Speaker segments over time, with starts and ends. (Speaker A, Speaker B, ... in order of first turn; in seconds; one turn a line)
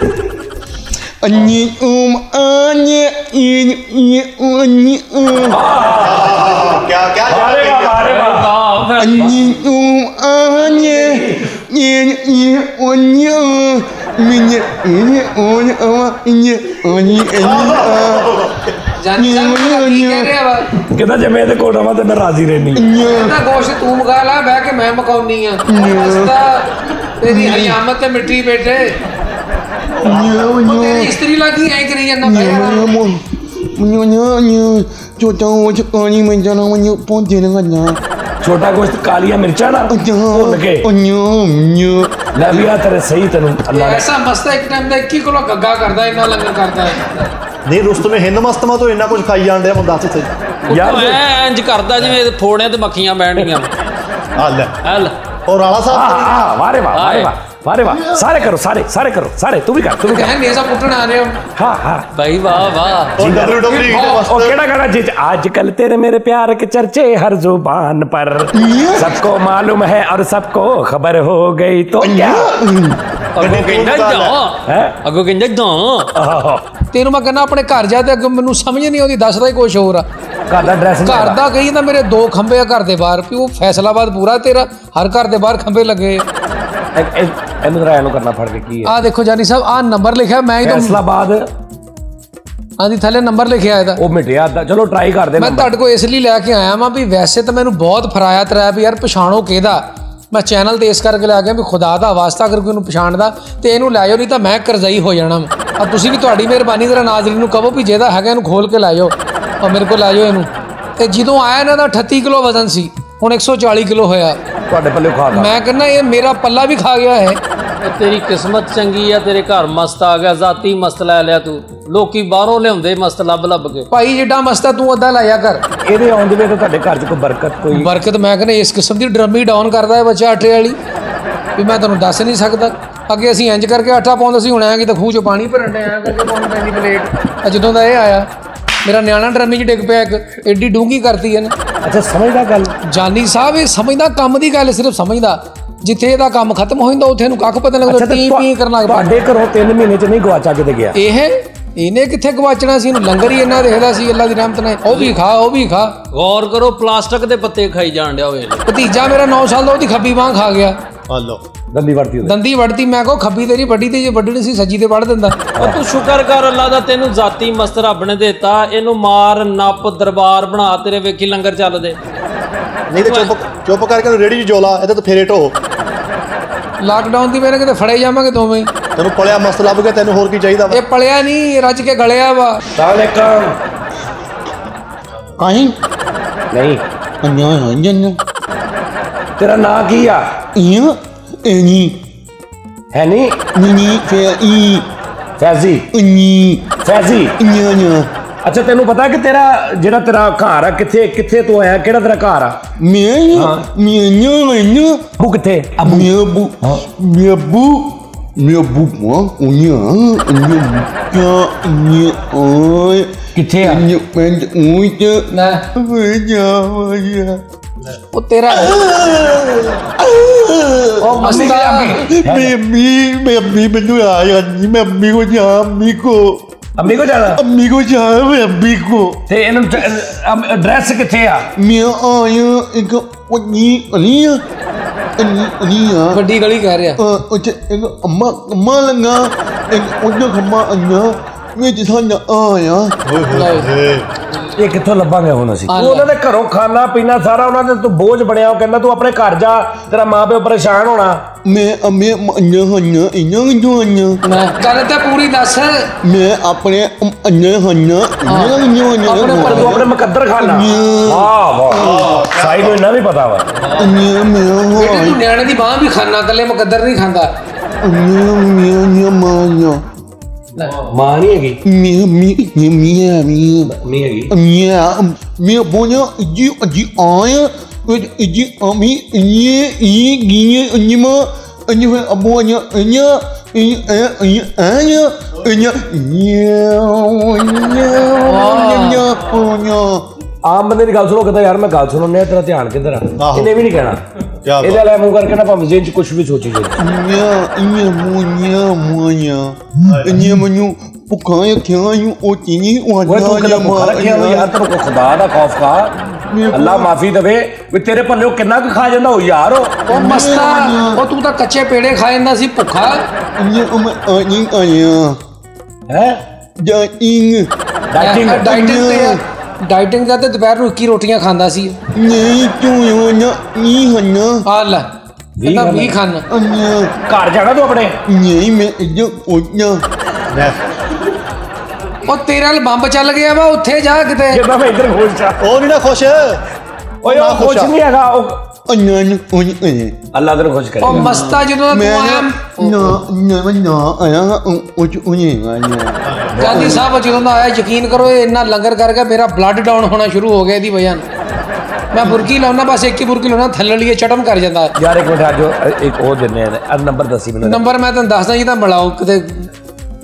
Speaker A: 1.2-5.6
Speaker B: 5.5-6.7
Speaker C: 6.0-8.1
Speaker B: 7.3-8.5
Speaker D: 8.0-9.5
Speaker A: 9.0-18.3
Speaker B: 10.8-11.2
Speaker C: 17.4-18.8
Speaker E: 19.0-20.7
Speaker A: 19.2-20.3
Speaker B: 20.9-22.8
Speaker A: 22.8-23.4
Speaker E: 23.0-26.7
Speaker A: 25.7-26.3
Speaker E: 27.2-29.0
Speaker A: 27.2-27.8
Speaker C: 30.0-30.6
Speaker A: 30.0-31.1
Speaker E: 30.6-32.9
Speaker A: 32.2-38.0
Speaker B: 38.4-40.9
Speaker A: 39.9-42.2
Speaker B: 42.3-44.1
Speaker E: 43.7-47.3
Speaker C: 47.7-50.3
Speaker D: 50.7-53.8
Speaker B: 50.7-51.2
Speaker C: 54.4-54.8
Speaker D: 54.8-55.1
Speaker C: 55.5-56.5
Speaker B: 55.9-60.3
Speaker D: 56.9-57.3
Speaker E: 60.0-61.4
Speaker B: 61.6-62.1
Speaker D: 62.1-63.2
Speaker C: 63.2-64.6
Speaker B: 63.2-72.5
Speaker E: 63.8-64.2
Speaker A: 68.5-69.2
Speaker A: 72.0-73.0
Speaker D: 73.4-76.1
Speaker C: 73.4-74.4
Speaker B: 74.7-75.0
Speaker B: 76.2-76.7
Speaker E: 76.9-80.0
Speaker B: 80.5-81.4
Speaker E: 81.0-86.3
Speaker B: 87.0-89.0
Speaker E: 88.8-91.0
Speaker B: 90.6-91.4
Speaker E: 92.8-94.0
Speaker B: 94.0-95.7
Speaker E: 95.4-114.4
Speaker B: 114.7-115.6
Speaker E: 115.3-117.4
Speaker D: 117.8-123.9
Speaker E: 123.9-125.6
Speaker B: 125.8-127.9
Speaker E: 127.7-130.8
Speaker E: 131.6-138.3
Speaker E: 138.8-141.5
Speaker B: 141.8-142.8
Speaker E: 142.8-149.1
Speaker B: 147.9-151.0
Speaker E: 150.9-155.9
Speaker D: 154.9-155.1
Speaker D: 156.1-158.6
Speaker E: 158.7-160.8
Speaker C: 161.1-161.4
Speaker B: 161.7-162.3
Speaker E: 162.2-165.4
Speaker D: 165.6-172.0
Speaker C: 172.9-175.6
Speaker D: 172.9-173.3
Speaker E: 176.8-178.7
Speaker C: 179.0-180.8
Speaker E: 180.7-182.6
Speaker B: 182.8-183.6
Speaker A: 185.4-185.8
Speaker B: 186.5-186.8
Speaker A: 187.2-188.2
Speaker B: 189.4-190.4
Speaker A: 190.6-192.0
Speaker B: 192.9-193.4
Speaker A: 193.5-194.9
Speaker B: 195.4-195.9
Speaker A: 195.9-196.8
Speaker B: 196.8-197.3
Speaker A: 197.4-198.1
Speaker B: 198.4-202.6
Speaker A: 202.8-205.1
Speaker B: 203.3-203.6
Speaker B: 205.2-206.1
Speaker A: 205.8-217.4
Speaker B: 213.4-213.8
Speaker E: 215.3-215.6
Speaker E: 218.1-218.9
Speaker A: 218.5-229.2
Speaker E: 221.0-222.1
Speaker B: 221.2-222.5
Speaker B: 226.8-227.4
Speaker B: 229.3-231.5
Speaker A: 231.6-234.4
Speaker A: 235.2-236.2
Speaker E: 236.1-237.0
Speaker A: 237.0-243.0
Speaker C: 243.1-244.1
Speaker E: 243.3-243.7
Speaker B: 244.6-251.2
Speaker E: 245.7-246.1
Speaker A: 251.4-254.2
Speaker E: 254.2-255.9
Speaker A: 256.0-262.1
Speaker E: 258.3-259.8
Speaker B: 259.5-263.5
Speaker C: 261.8-262.8
Speaker D: 263.6-263.9
Speaker A: 263.8-265.2
Speaker E: 264.8-267.3
Speaker A: 267.8-269.8
Speaker D: 270.6-270.9
Speaker B: 270.9-271.6
Speaker A: 271.6-273.8
Speaker B: 273.7-274.3
Speaker A: 274.3-290.0
Speaker E: 288.3-289.0
Speaker B: 290.4-294.0
Speaker C: 293.2-293.5
Speaker C: 294.4-294.8
Speaker B: 294.6-296.8
Speaker A: 296.8-304.5
Speaker C: 299.9-300.2
Speaker B: 303.1-305.9
Speaker A: 306.1-306.9
Speaker B: 306.5-309.9
Speaker E: 309.9-313.0
Speaker A: 309.9-311.0
Speaker A: 313.4-315.2
Speaker B: 315.9-316.2
Speaker A: 316.6-317.5
Speaker B: 317.9-318.5
Speaker E: 318.0-321.8
Speaker A: 318.4-319.2
Speaker A: 321.9-324.4
Speaker E: 324.5-324.9
Speaker B: 325.4-326.0
Speaker E: 325.4-326.2
Speaker A: 326.3-326.9
Speaker B: 327.1-328.0
Speaker A: 328.1-329.8
Speaker C: 330.3-330.6
Speaker E: 332.1-334.4
Speaker B: 334.3-335.4
Speaker C: 335.4-336.4
Speaker C: 337.0-337.7
Speaker B: 337.0-338.4
Speaker A: 338.7-340.0
Speaker B: 340.1-341.2
Speaker E: 340.8-342.9
Speaker A: 340.9-346.9
Speaker C: 346.1-346.4
Speaker B: 346.3-346.8
Speaker E: 346.4-351.0
Speaker E: 351.9-354.8
Speaker B: 354.8-357.6
Speaker E: 357.4-359.5